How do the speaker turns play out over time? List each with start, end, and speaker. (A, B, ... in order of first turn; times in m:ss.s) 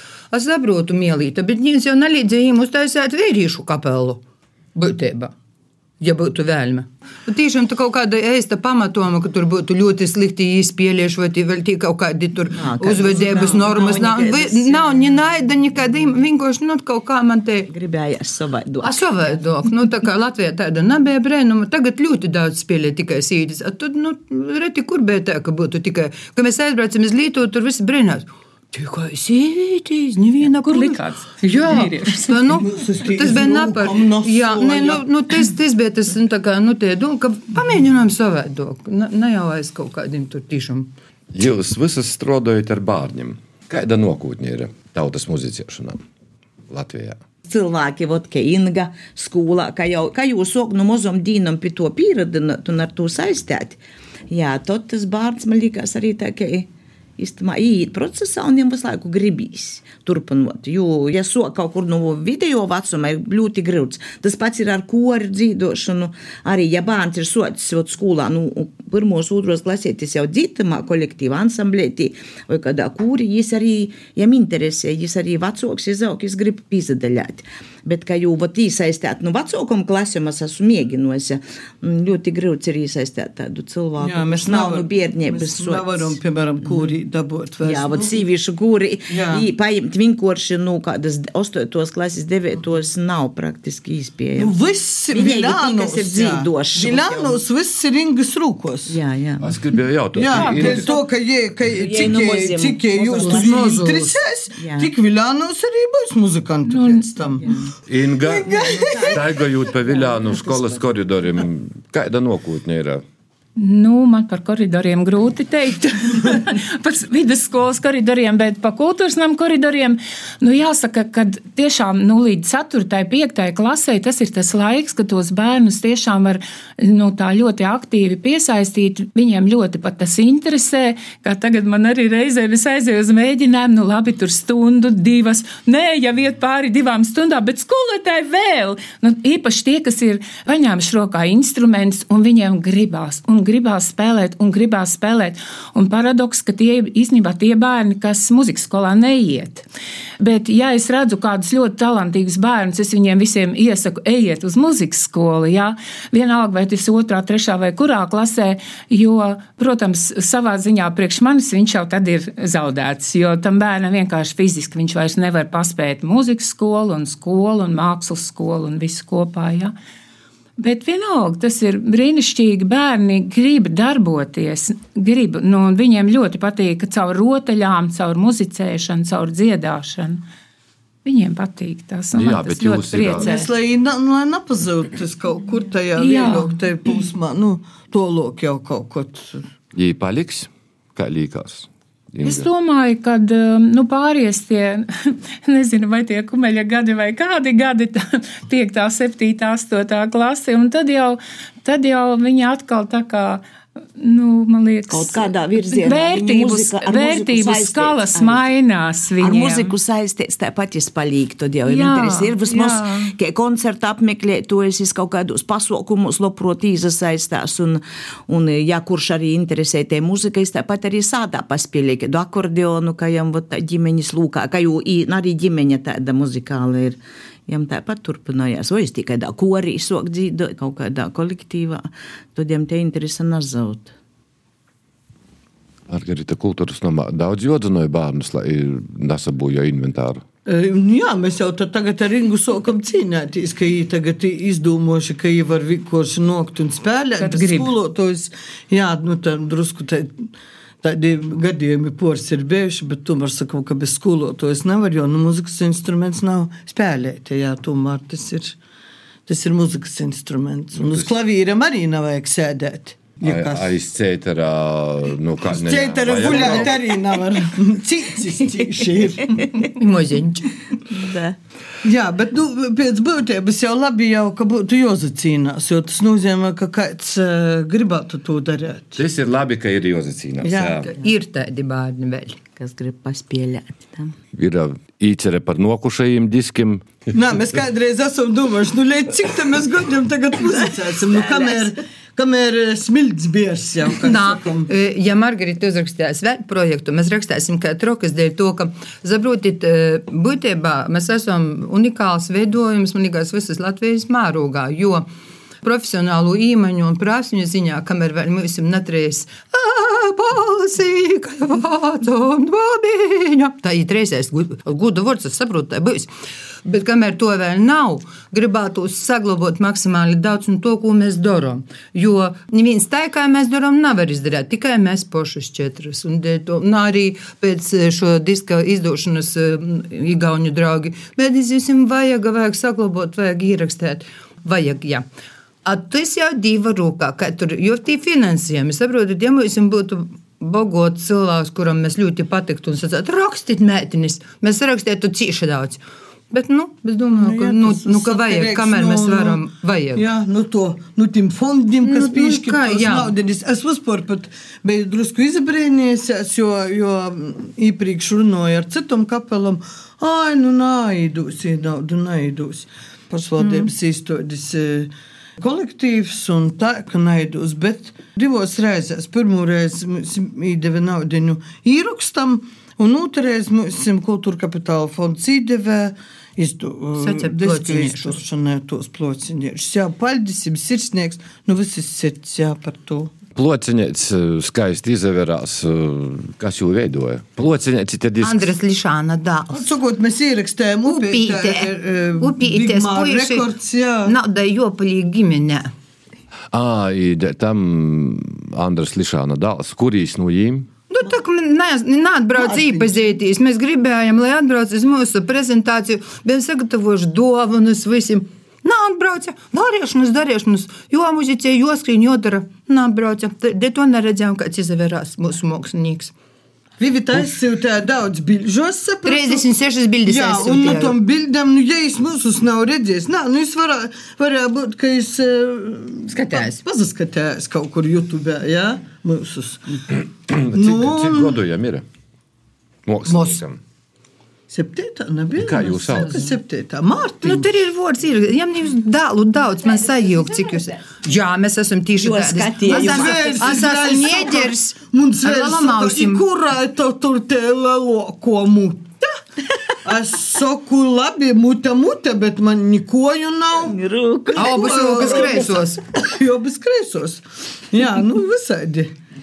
0:00.3-0:04.2 A
0:04.7-0:05.3 A
0:06.0-0:17.7 A
0:12.5-0:15.1 B
0:13.3-0:13.7 C
0:17.7-0:19.4 B
0:18.8-0:40.9 A
0:30.6-0:32.4 D
0:32.5-0:35.0 C
0:41.3-0:46.0 E
0:46.7-0:47.2 E
0:47.4-0:53.8 B
0:54.3-1:26.2 B
1:24.0-1:28.2 C
1:27.6-1:34.6 B
1:29.1-1:29.4 C
1:34.4-1:39.0 C
1:35.1-1:37.4 B
1:38.9-1:39.5 B
1:39.4-1:40.9 E
1:40.1-1:47.5 C
1:40.4-1:40.9 D
1:41.6-1:43.8 B
1:43.2-1:44.2 A
1:44.6-1:44.9 B
1:46.7-1:47.0 D
1:47.4-1:47.7 B
1:47.9-1:53.0 E
1:48.2-1:49.4 C
1:48.5-1:50.8 B
1:53.6-2:29.6 D
2:30.2-2:49.7 D
2:50.6-3:00.2 D
3:01.0-3:03.5 D
3:02.1-3:03.4 E
3:03.1-3:09.4 C
3:06.0-3:07.0 D
3:09.7-3:12.5 E
3:12.2-3:23.4 D
3:23.9-3:29.7 D
3:24.9-3:28.5 B
3:29.2-3:53.9 B
3:31.6-3:33.1 D
3:55.9-4:00.2 E
4:00.4-4:10.3 C
4:07.2-4:07.7 D
4:10.8-4:18.6 C
4:19.3-4:23.7 C
4:23.2-4:26.8 E
4:25.5-4:29.4 C
4:28.8-4:29.7 B
4:29.6-4:30.6 A
4:30.9-4:31.4 B
4:31.8-4:39.0 C
4:39.0-4:40.9 E
4:40.4-4:40.9 C
4:40.9-4:42.4 A
4:42.6-4:44.1 B
4:44.3-4:46.9 E
4:47.1-4:54.7 C
4:50.6-4:51.7 B
4:54.0-5:05.0 A
5:05.6-5:16.1 A
5:16.6-5:35.0 A
5:35.6-5:50.0 A
5:47.1-5:49.4 C
5:50.0-6:23.1 C
5:51.8-5:53.1 A
6:17.0-6:18.2 A
6:23.4-6:28.5 E
6:28.2-6:29.7 A
6:29.5-6:34.1 C
6:30.8-6:33.5 A
6:34.0-6:35.7 A
6:36.5-6:40.7 E
6:40.9-6:56.1 A
6:42.4-6:43.1 C
6:56.8-6:59.5 C
6:59.0-7:01.0 A
7:00.0-7:10.0 C
7:06.1-7:06.6 A
7:10.3-7:11.8 E
7:10.5-7:11.4 C
7:12.9-7:13.6 E
7:13.1-7:13.4 A
7:14.5-7:17.5 C
7:15.4-7:16.1 E
7:16.0-7:16.4 A
7:17.2-7:26.2 A
7:22.0-7:23.6 B
7:22.6-7:28.9 C
7:29.8-7:33.8 C
7:33.6-7:35.5 B
7:34.3-7:38.9 C
7:34.4-7:35.8 A